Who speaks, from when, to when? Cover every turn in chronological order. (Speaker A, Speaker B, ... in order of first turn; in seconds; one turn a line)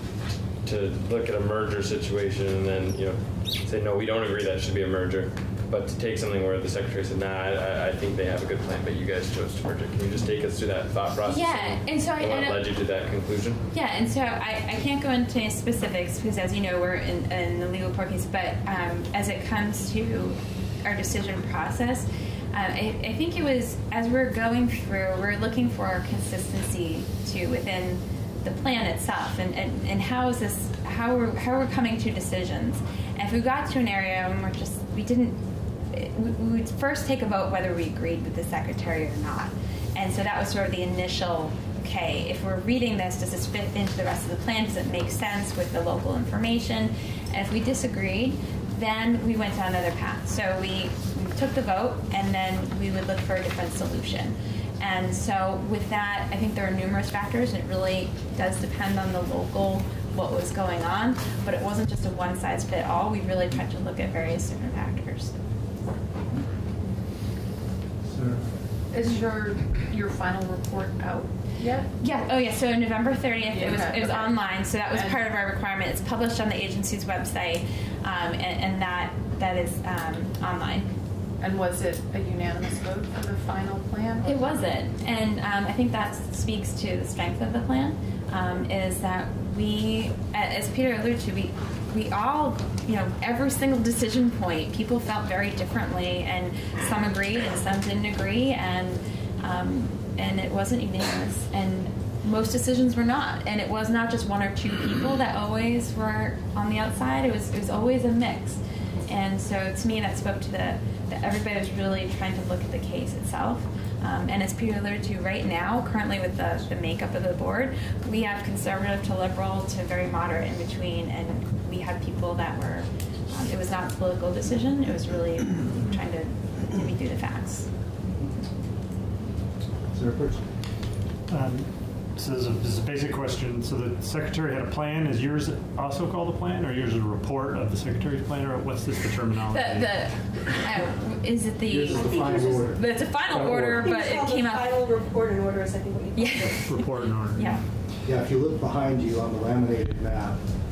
Speaker A: 0.6-13.6
Speaker B: 11.2-12.7
Speaker B: 13.7-65.3
Speaker C: 68.9-71.9
Speaker B: 72.0-80.9
Speaker C: 73.5-75.2
Speaker C: 81.4-84.7
Speaker B: 84.2-127.7
Speaker D: 129.9-130.4
Speaker E: 131.3-139.9
Speaker B: 139.5-144.8
Speaker D: 141.7-142.8
Speaker F: 142.1-142.7
Speaker E: 143.3-143.9
Speaker F: 143.7-146.7
Speaker B: 146.2-147.6
Speaker E: 146.5-147.6
Speaker D: 148.0-150.4